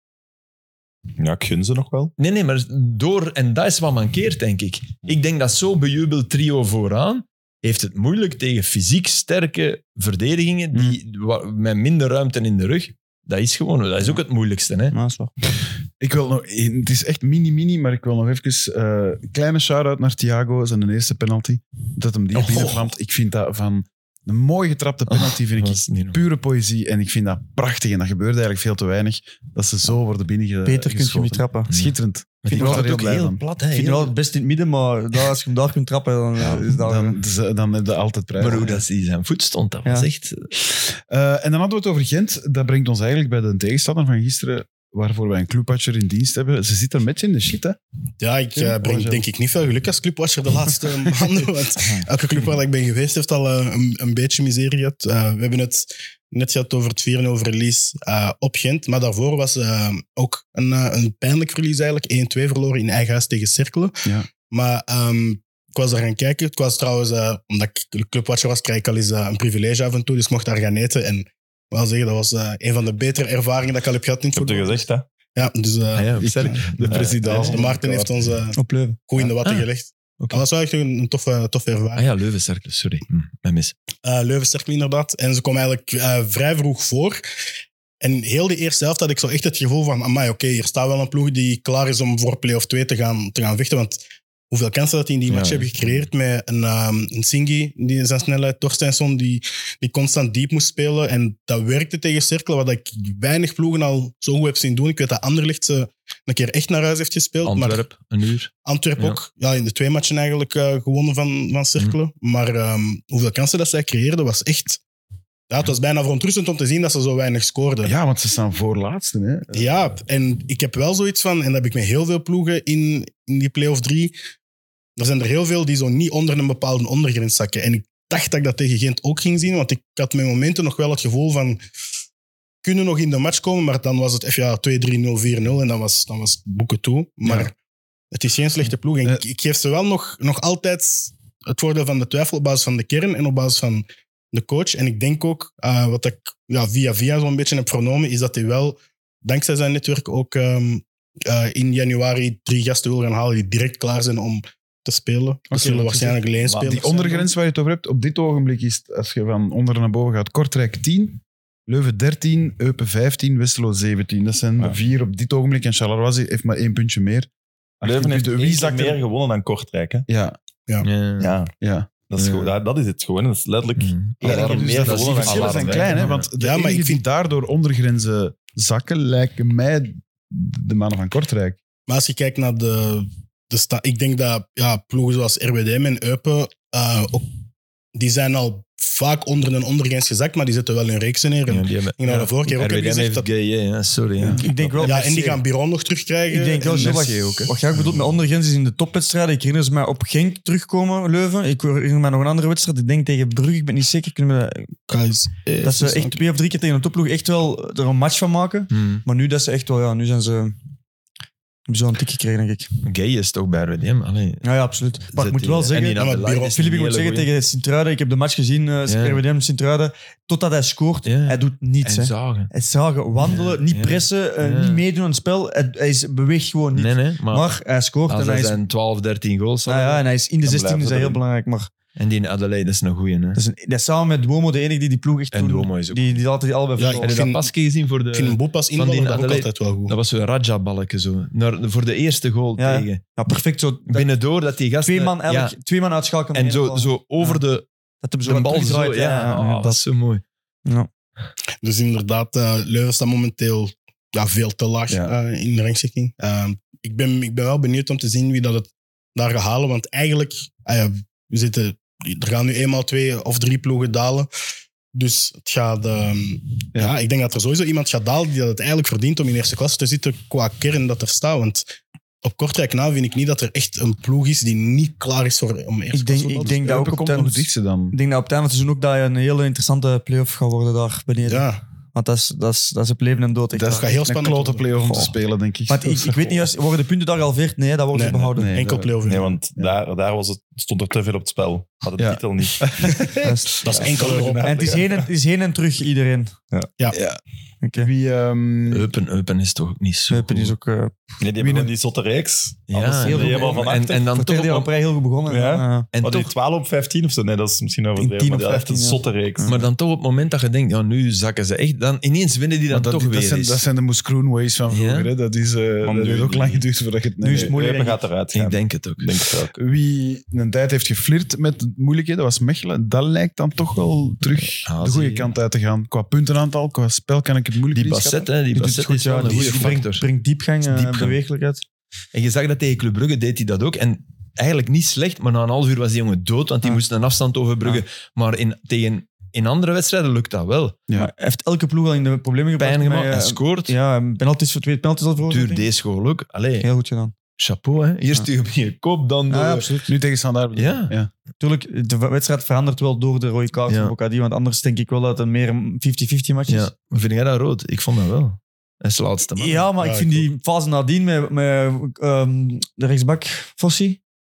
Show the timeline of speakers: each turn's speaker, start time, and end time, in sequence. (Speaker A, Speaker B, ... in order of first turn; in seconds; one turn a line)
Speaker A: 1.2-2.1
Speaker B: 2.2-14.9
Speaker C: 14.9-15.3
Speaker D: 16.0-33.4
Speaker E: 22.4-22.7
Speaker B: 25.1-26.2
Speaker C: 30.6-31.7
Speaker B: 31.7-34.1
Speaker C: 32.5-32.9
Speaker C: 33.7-37.2
Speaker D: 36.4-38.8
Speaker B: 38.4-40.5
Speaker D: 40.9-47.8
Speaker E: 48.2-76.7
Speaker D: 48.6-49.2
Speaker A: 74.3-75.1
Speaker B: 76.0-77.6
Speaker D: 76.2-78.1
Speaker E: 77.2-82.1
Speaker C: 78.5-79.0
Speaker B: 82.0-83.8
Speaker E: 84.0-87.2
Speaker E: 88.0-107.8
Speaker B: 95.3-96.0
Speaker B: 107.5-109.2
Speaker E: 108.7-114.8
Speaker E: 115.5-117.9
Speaker D: 117.8-119.7
Speaker E: 119.5-124.2
Speaker E: 125.0-131.6
Speaker E: 132.6-137.6
Speaker E: 138.1-157.1
Speaker D: 155.5-156.1
Speaker A: 156.4-156.9
Speaker D: 156.6-167.3
Speaker D: 167.8-169.0
Speaker A: 167.8-170.1
Speaker D: 170.1-170.4
Speaker B: 170.8-171.4
Speaker A: 171.2-171.5
Speaker D: 171.6-171.9
Speaker A: 172.1-176.2
Speaker B: 172.2-172.6
Speaker B: 173.8-176.3
Speaker D: 174.2-181.6
Speaker E: 176.3-177.0
Speaker E: 181.9-187.3
Speaker E: 187.9-193.3
Speaker B: 191.5-194.5
Speaker C: 194.4-195.4
Speaker A: 194.6-194.9
Speaker E: 194.8-197.1
Speaker C: 196.3-204.8
Speaker D: 196.8-197.6
Speaker B: 196.9-197.5
Speaker E: 204.9-206.2
Speaker C: 205.6-210.6
Speaker B: 208.7-209.0
Speaker C: 211.7-212.7
Speaker B: 212.8-214.4
Speaker C: 214.4-228.6
Speaker B: 215.1-217.3
Speaker E: 215.9-216.6
Speaker B: 218.9-219.2
Speaker B: 221.1-222.5
Speaker B: 223.2-224.8
Speaker B: 226.8-227.5
Speaker B: 228.1-230.0
Speaker C: 229.7-231.7
Speaker A: 230.4-231.2
Speaker B: 232.0-233.4
Speaker C: 233.3-237.2
Speaker B: 235.3-236.2
Speaker E: 236.8-237.5
Speaker B: 237.0-243.0
Speaker E: 238.1-239.9
Speaker C: 242.6-244.1
Speaker B: 243.9-245.6
Speaker C: 244.8-247.4
Speaker B: 246.3-247.7
Speaker C: 248.0-249.8
Speaker B: 248.2-250.2
Speaker E: 251.6-264.3
Speaker D: 254.9-255.1
Speaker E: 264.9-271.6
Speaker E: 272.2-276.6
Speaker C: 275.9-283.9
Speaker D: 276.4-278.0
Speaker E: 281.3-281.6
Speaker D: 283.5-286.4
Speaker E: 283.8-284.7
Speaker C: 284.8-285.1
Speaker C: 285.7-288.5
Speaker E: 287.9-289.3
Speaker D: 288.4-289.8
Speaker A: 289.1-295.0
Speaker D: 292.0-293.2
Speaker C: 293.2-293.9
Speaker E: 293.6-294.8
Speaker C: 294.4-296.4
Speaker D: 296.9-297.2
Speaker C: 297.6-297.9
Speaker D: 297.8-298.9
Speaker B: 298.7-300.6
Speaker C: 300.1-301.0
Speaker A: 301.2-304.0
Speaker D: 301.4-301.7
Speaker B: 302.7-304.7
Speaker C: 302.9-305.9
Speaker A: 305.3-309.6
Speaker B: 305.9-306.3
Speaker C: 308.0-309.7
Speaker B: 309.4-313.6
Speaker D: 312.7-317.5
Speaker B: 314.7-315.1
Speaker A: 315.8-316.6
Speaker C: 317.2-318.0
Speaker A: 317.4-319.6
Speaker B: 318.3-319.1
Speaker D: 319.6-328.3
Speaker B: 324.6-325.3
Speaker B: 327.7-330.1
Speaker C: 328.6-331.6
Speaker D: 329.3-329.7
Speaker B: 330.6-331.2
Speaker B: 332.1-340.8
Speaker C: 340.9-345.7
Speaker B: 342.6-343.8
Speaker B: 345.3-346.7
Speaker C: 346.6-347.1
Speaker B: 347.4-349.7
Speaker C: 349.3-349.9
Speaker D: 349.9-351.1
Speaker B: 350.6-350.9
Speaker C: 351.4-356.7
Speaker B: 353.7-353.9
Speaker B: 356.5-359.7
Speaker C: 359.4-364.0
Speaker E: 359.8-360.3